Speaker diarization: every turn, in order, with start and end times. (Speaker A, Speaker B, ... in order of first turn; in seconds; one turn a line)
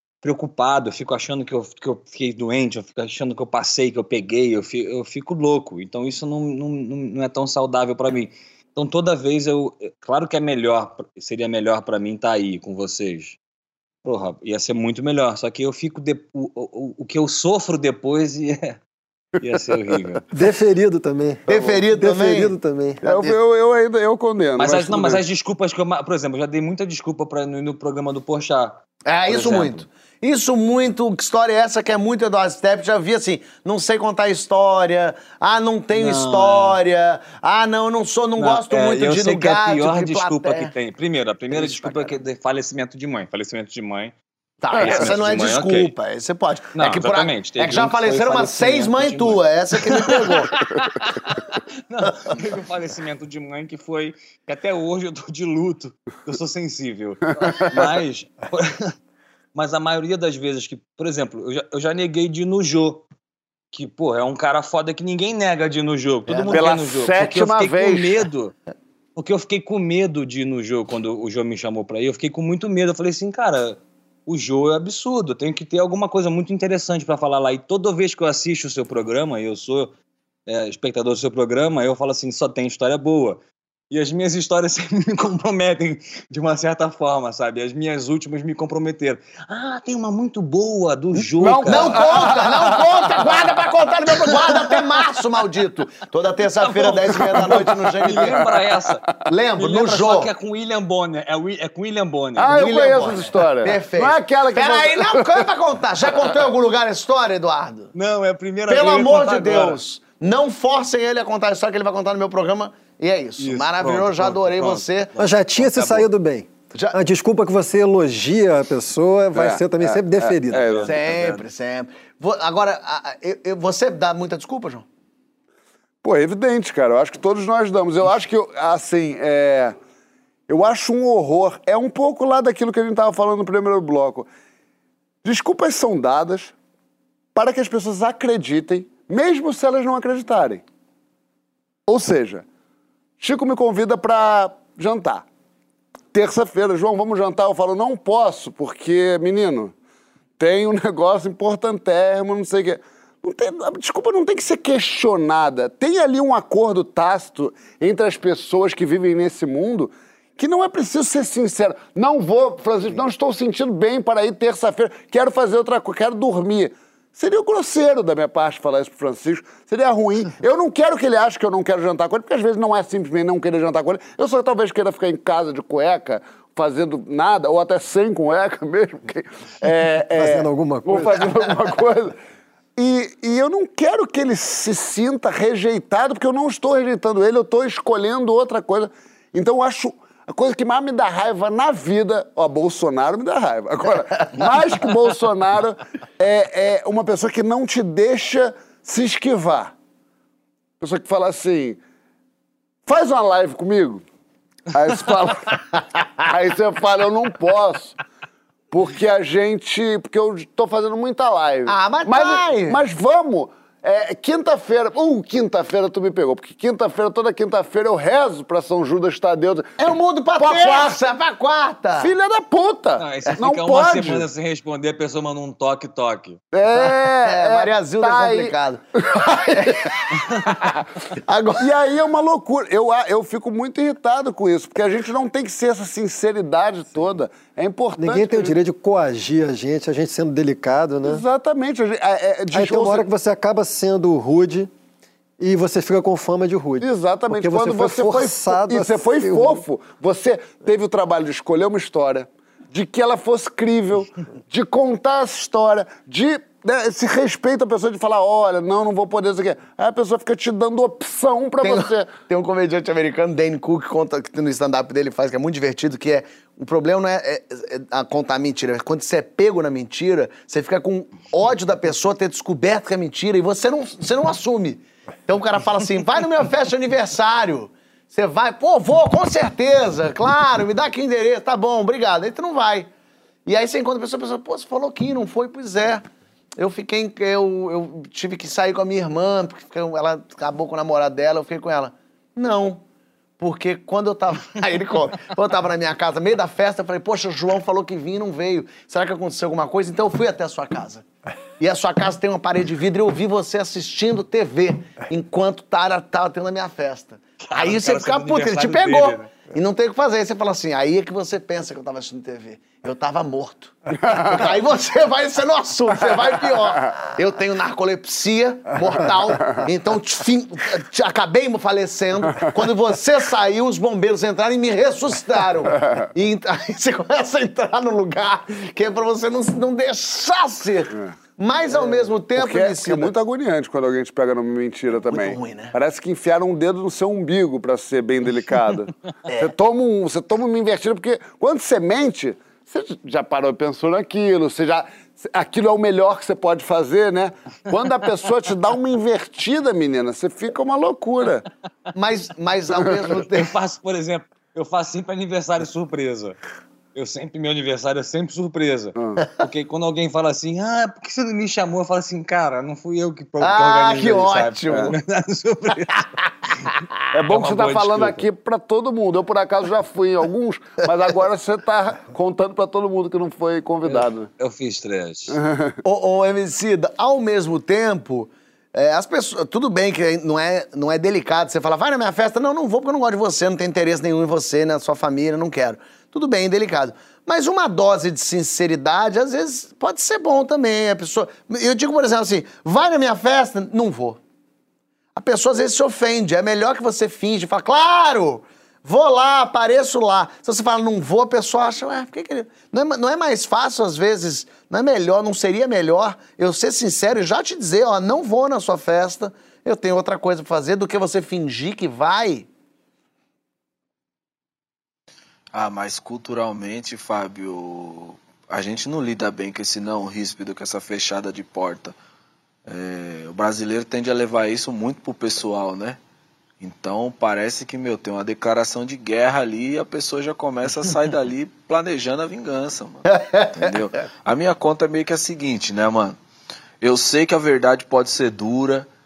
Speaker A: 0.2-13.4
Speaker A: 14.0-18.8
Speaker A: 19.4-20.2
Speaker B: 20.3-23.0
Speaker C: 21.5-23.3
Speaker D: 21.5-21.8
Speaker D: 23.0-25.2
Speaker A: 24.6-29.8
Speaker C: 29.1-40.7
Speaker A: 36.0-36.8
Speaker A: 38.4-44.1
Speaker C: 41.5-42.1
Speaker C: 44.6-50.6
Speaker A: 44.8-45.9
Speaker A: 46.7-58.9
Speaker D: 57.4-57.7
Speaker A: 59.5-63.0
Speaker A: 63.7-68.5
Speaker C: 66.3-66.6
Speaker D: 66.5-68.2
Speaker A: 69.2-79.9
Speaker A: 80.5-92.1
Speaker D: 91.2-93.7
Speaker C: 91.7-98.4
Speaker D: 94.2-94.5
Speaker A: 96.6-99.0
Speaker C: 99.3-100.3
Speaker A: 99.6-102.6
Speaker D: 102.3-105.5
Speaker C: 102.5-107.9
Speaker A: 107.9-109.8
Speaker C: 108.7-115.1
Speaker A: 113.4-116.1
Speaker B: 115.2-120.7
Speaker D: 119.3-120.9
Speaker A: 120.5-121.4
Speaker C: 120.8-124.8
Speaker D: 126.0-129.8
Speaker D: 130.5-134.3
Speaker D: 135.2-136.5
Speaker D: 137.3-140.6
Speaker D: 141.9-142.4
Speaker D: 143.2-145.2
Speaker D: 146.1-149.7
Speaker D: 150.4-182.2
Speaker B: 180.2-181.3
Speaker D: 182.8-199.7
Speaker D: 200.8-201.8
Speaker D: 202.8-204.0
Speaker D: 204.7-205.6
Speaker D: 206.2-208.0
Speaker D: 208.7-219.8
Speaker C: 211.7-212.8
Speaker C: 219.8-222.1
Speaker D: 220.4-220.9
Speaker D: 222.0-224.3
Speaker A: 223.0-226.4
Speaker D: 226.5-228.5
Speaker C: 226.8-230.3
Speaker D: 229.1-229.7
Speaker C: 231.3-231.7
Speaker D: 231.6-238.6
Speaker B: 238.0-241.2
Speaker D: 241.0-243.1
Speaker B: 242.5-244.7
Speaker B: 245.4-249.6
Speaker D: 246.8-262.1
Speaker C: 261.6-282.9
Speaker C: 283.4-286.0
Speaker C: 286.6-292.8
Speaker C: 293.4-301.0
Speaker C: 301.6-333.1
Speaker A: 307.4-309.3
Speaker D: 314.0-314.3
Speaker D: 331.7-351.5
Speaker C: 335.1-335.7
Speaker C: 351.9-353.5
Speaker A: 353.3-356.4
Speaker A: 356.9-366.7
Speaker D: 358.9-359.2
Speaker C: 363.4-364.9
Speaker D: 367.1-374.3
Speaker A: 367.3-368.2
Speaker A: 373.8-375.3
Speaker D: 375.3-375.8
Speaker C: 375.8-394.2
Speaker C: 395.1-412.5
Speaker E: 415.5-421.9
Speaker E: 422.6-426.0
Speaker E: 426.6-436.2
Speaker E: 436.8-438.9